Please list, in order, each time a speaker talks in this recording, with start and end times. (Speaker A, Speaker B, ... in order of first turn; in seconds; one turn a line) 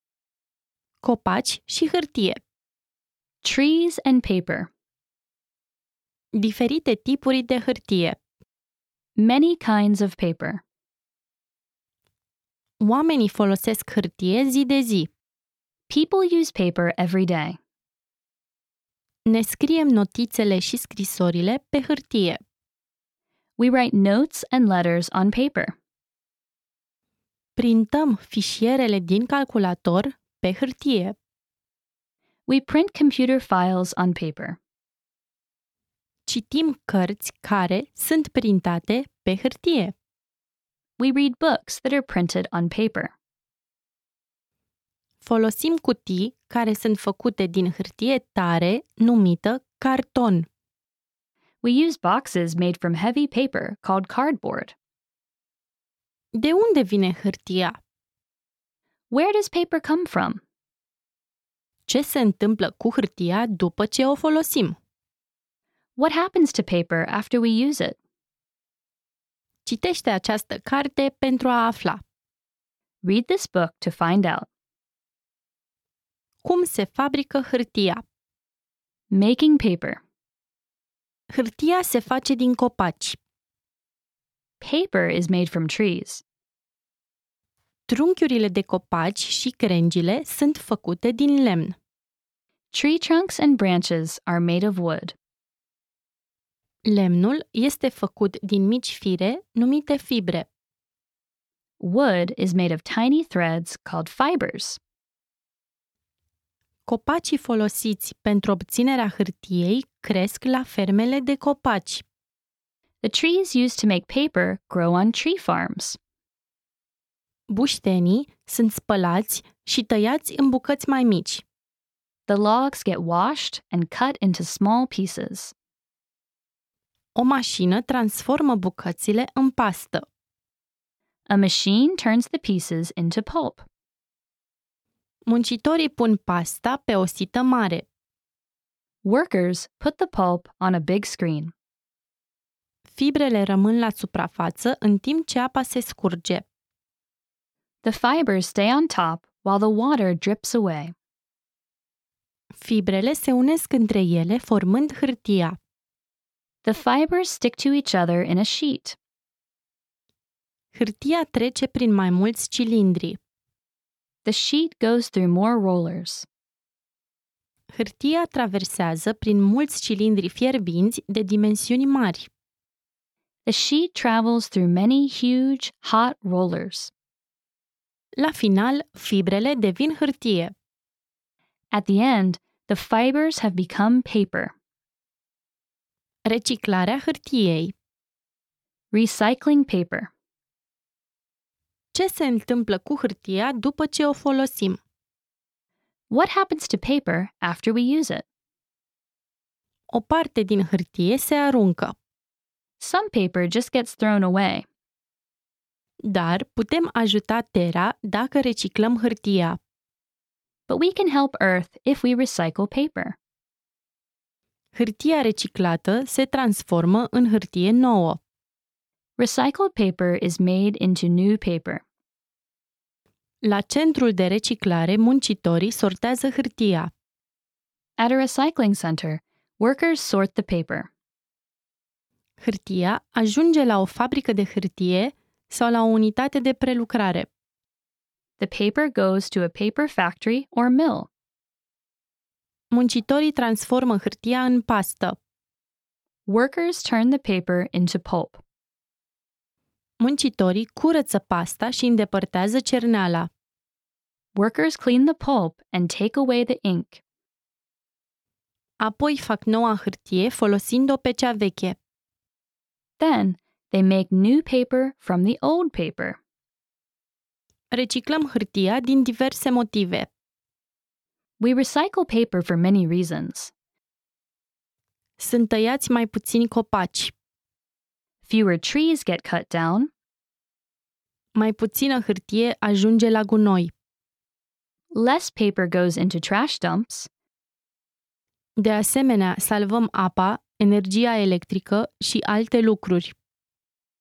Speaker A: 1.0-2.4
Speaker B: 3.4-4.7
Speaker A: 6.4-8.2
Speaker B: 9.2-10.6
Speaker A: 12.8-15.1
Speaker B: 15.9-17.6
Speaker A: 19.3-22.4
Speaker B: 23.6-25.8
Speaker A: 27.6-31.2
Speaker B: 32.5-34.6
Speaker A: 36.3-39.9
Speaker B: 41.0-43.1
Speaker A: 45.2-50.5
Speaker B: 51.6-54.7
Speaker A: 56.4-57.8
Speaker B: 59.1-60.4
Speaker A: 61.9-64.8
Speaker B: 66.0-68.0
Speaker A: 69.7-72.0
Speaker B: 73.0-74.5
Speaker A: 76.4-78.0
Speaker B: 79.1-80.0
Speaker A: 81.3-83.2
Speaker B: 84.6-86.2
Speaker A: 87.9-91.8
Speaker B: 92.7-95.2
Speaker A: 96.8-100.5
Speaker B: 101.8-104.8
Speaker A: 106.9-112.0
Speaker B: 113.0-116.0
Speaker A: 117.5-121.4
Speaker B: 122.3-125.5
Speaker A: 127.2-130.1
Speaker B: 131.3-133.7
Speaker A: 135.3-137.9
Speaker B: 139.0-141.5
Speaker A: 142.9-146.5
Speaker B: 147.8-150.9
Speaker A: 152.6-155.6
Speaker B: 156.6-159.0
Speaker A: 160.7-163.2
Speaker B: 164.2-166.3
Speaker A: 167.7-172.3
Speaker B: 173.5-176.9
Speaker A: 178.2-180.5
Speaker B: 181.7-184.6
Speaker A: 186.2-187.7
Speaker B: 188.9-190.1
Speaker A: 191.9-194.8
Speaker B: 196.1-198.2
Speaker A: 199.9-202.0
Speaker B: 202.8-204.7
Speaker A: 206.0-209.6
Speaker B: 210.7-213.2
Speaker A: 214.7-218.2
Speaker B: 219.2-221.8
Speaker A: 223.4-226.9
Speaker B: 228.0-230.9
Speaker A: 232.4-237.3
Speaker B: 238.4-241.1
Speaker A: 242.7-245.2
Speaker B: 246.2-248.4
Speaker A: 250.0-253.3
Speaker B: 254.3-257.0
Speaker A: 258.8-261.8
Speaker B: 263.0-266.2
Speaker A: 267.7-270.1
Speaker B: 271.4-273.5
Speaker A: 275.2-277.1
Speaker B: 278.2-279.9
Speaker A: 281.4-283.7
Speaker B: 284.9-287.1
Speaker A: 288.6-293.1